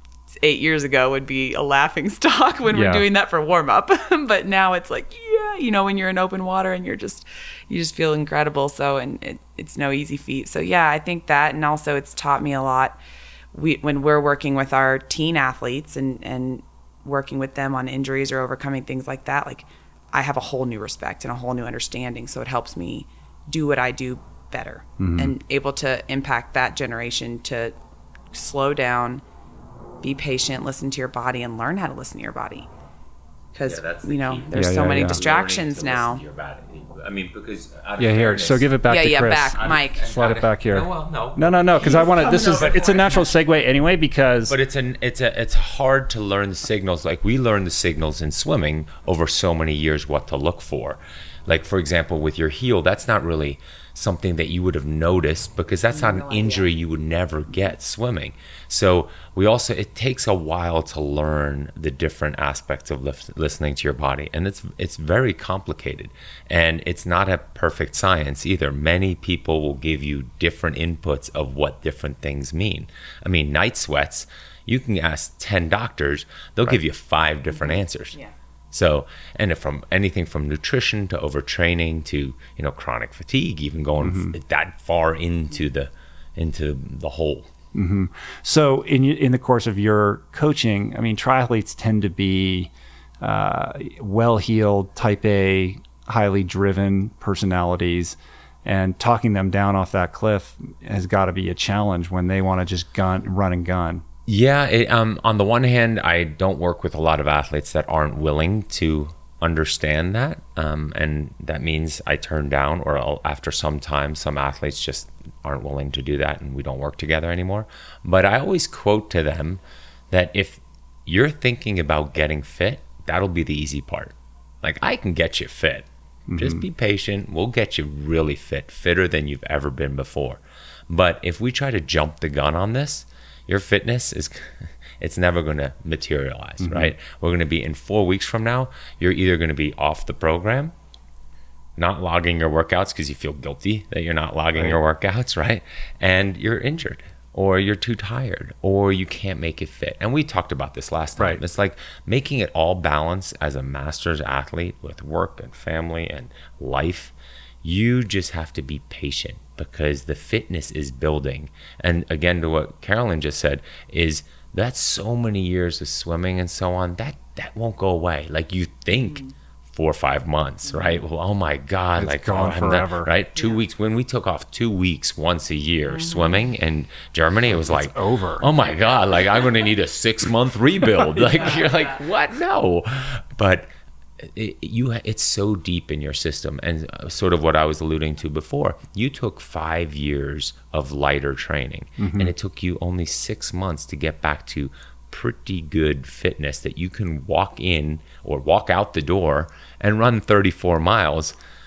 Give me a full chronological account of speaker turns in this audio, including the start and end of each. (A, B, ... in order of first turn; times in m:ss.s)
0:00.4-0:13.0 A
0:02.7-0:03.1 B
0:13.5-0:27.7 A
0:25.0-0:25.4 B
0:28.3-0:29.2 A
0:30.0-0:32.7 A
0:33.5-0:36.2 A
0:33.6-0:38.8 C
0:34.5-0:35.2 B
0:38.0-0:44.6 B
0:38.8-0:40.1 A
0:39.6-0:43.1 C
0:41.8-0:43.3 A
0:44.5-1:18.2 C
0:55.9-0:56.7 A
1:17.5-1:18.3 A
1:18.7-1:27.5 C
1:24.0-1:24.4 B
1:27.7-1:44.0 B
1:44.3-2:20.7 C
2:06.3-2:06.6 B
2:16.6-2:16.9 B
2:21.8-3:03.7 C
2:52.0-2:53.1 B
2:53.4-2:53.6 A
2:55.9-2:56.4 A
2:57.5-2:58.5 B
3:00.9-3:01.5 B
3:04.2-3:21.4 C
3:12.0-3:12.3 B